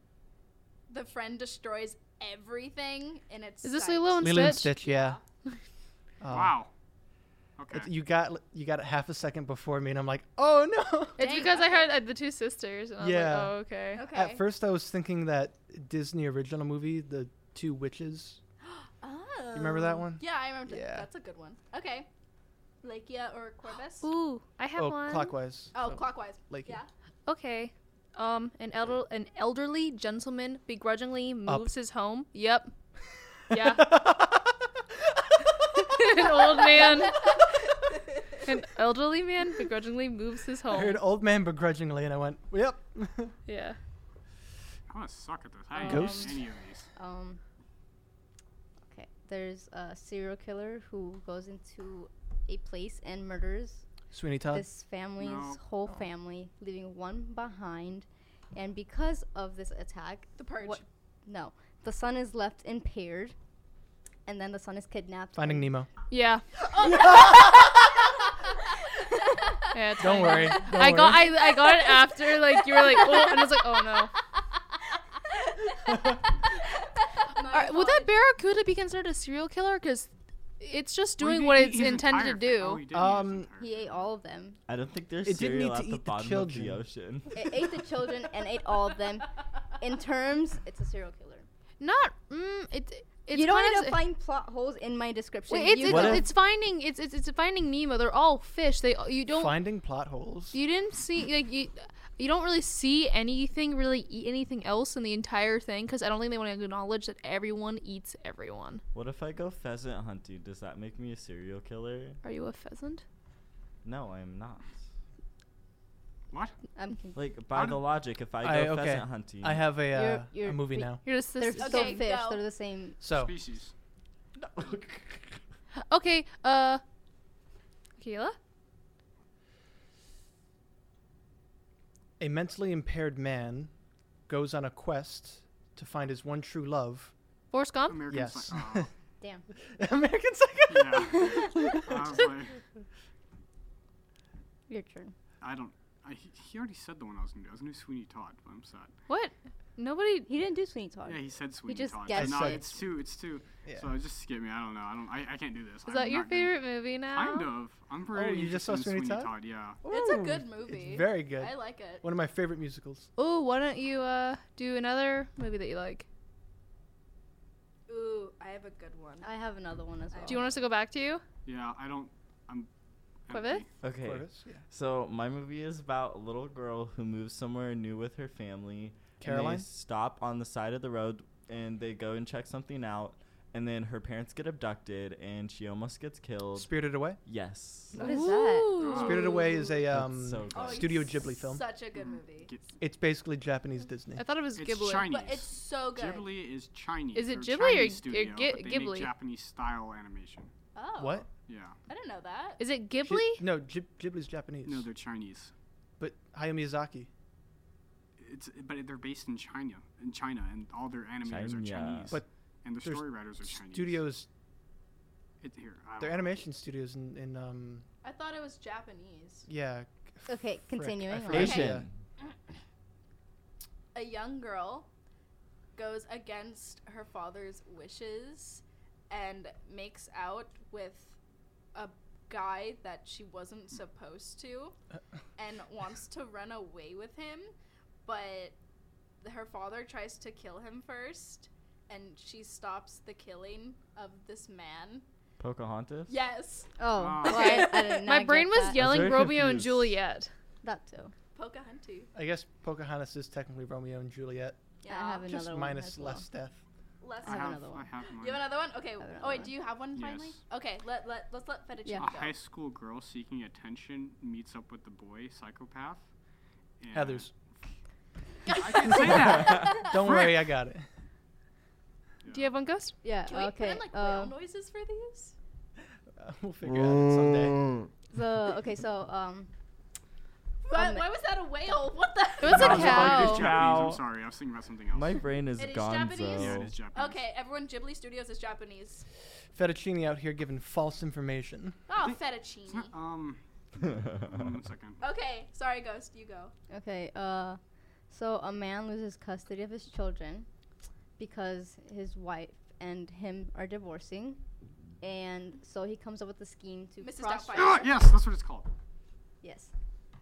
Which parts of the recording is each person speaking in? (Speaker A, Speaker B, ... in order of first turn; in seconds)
Speaker A: 0.9-5.2, 11.2-11.9, 13.9-14.4, 18.6-22.1, 22.8-24.1, 25.7-26.9, 60.4-60.8, 66.7-67.7, 70.0-70.5, 71.3-74.0, 75.3-78.1, 121.5-122.4, 159.8-162.0, 167.9-169.3, 170.1-170.5, 190.5-192.5, 195.1-196.3, 200.7-201.3, 201.9-202.6, 218.0-219.5, 221.3-221.8, 223.9-224.9, 225.7-231.1, 231.7-234.8, 235.4-237.5, 238.0-238.5, 239.2-245.0, 246.1-248.0, 251.3-252.1, 254.8-255.4, 257.0-262.4, 268.5-270.3, 273.2-275.3, 280.6-283.1, 285.6-289.0, 291.9-292.9, 295.0-296.5, 307.0-308.0
Speaker B: 3.6-4.7, 11.2-14.0, 24.0-25.3, 27.2-32.7, 33.5-34.0, 35.8-37.3, 38.4-41.0, 43.5-43.8, 45.8-46.1, 66.1-66.4, 69.7-74.1, 77.4-82.8, 91.8-94.0, 95.5-99.5, 100.5-108.8, 112.2-113.0, 121.0-122.0, 125.9-126.8, 128.0-128.3, 137.5-138.0, 149.1-150.3, 155.9-157.5, 163.2-166.1, 170.3-171.2, 173.3-173.6, 187.9-189.7, 194.2-195.1, 197.1-199.1, 202.6-203.4, 247.2-250.3, 272.3-272.9, 282.4-283.5
Speaker C: 4.2-5.2, 6.2-6.6, 7.7-11.2, 13.0-18.4, 19.5-21.1, 24.8-26.8, 33.5-34.5, 35.8-36.1, 40.7-43.4, 45.8-46.4, 54.1-54.6, 65.3-65.9, 67.0-67.5, 70.0-71.3, 82.9-83.5, 85.2-86.8, 99.3-100.6, 118.4-121.0, 123.0-123.4, 132.2-133.7, 134.3-137.1, 138.1-138.9, 139.7-142.1, 152.1-152.8, 153.6-153.9, 158.1-163.1, 174.0-174.6, 179.2-179.7, 186.6-187.2, 188.9-191.6, 192.8-194.2, 201.0-201.3, 203.0-204.9, 206.0-207.1, 212.8-214.3, 216.0-217.8, 219.5-221.9, 252.1-254.6, 255.2-256.6, 266.9-267.3, 269.7-270.9, 276.1-277.8, 289.5-291.8
Speaker D: 6.3-6.7, 7.6-7.9, 44.9-46.9, 55.2-55.6, 81.2-84.0, 116.3-116.5, 117.5-117.8, 123.0-123.7, 137.9-138.9, 140.7-142.6, 145.4-148.9, 151.0-159.8, 171.4-172.7, 173.3-173.7, 188.8-189.4, 191.9-192.8, 194.6-200.5, 201.4-201.8, 204.6-205.5, 208.2-214.0, 215.4-216.4, 246.9-247.7, 257.2-258.5, 259.9-260.4, 262.0-266.0, 266.8-267.3, 268.5-270.4, 272.2-272.5, 282.4-285.2, 286.3-287.3, 292.0-295.0, 307.6-308.7
Speaker E: 45.8-46.3, 47.0-47.4, 48.9-53.9, 54.5-63.3, 64.2-65.7, 83.6-84.6, 87.3-91.5, 93.3-96.3, 116.8-117.2, 119.9-123.0, 141.2-141.9, 144.7-145.1, 150.3-152.7, 169.2-170.6, 187.9-188.9, 220.3-221.6, 246.8-249.1, 250.6-251.1, 254.9-256.2, 257.2-257.9, 259.0-259.6, 273.0-274.3, 278.1-279.5, 280.7-281.1, 296.7-297.6, 298.1-300.5, 301.2-304.4, 305.0-307.9, 309.4-309.7
Speaker F: 84.7-87.6, 95.8-96.2, 108.9-112.2, 113.8-114.8, 117.1-119.6, 124.3-125.4, 173.8-186.7, 187.2-187.9, 189.9-191.0, 211.2-212.2, 221.3-221.9, 245.4-246.2, 248.7-249.9, 282.5-284.0, 284.9-286.7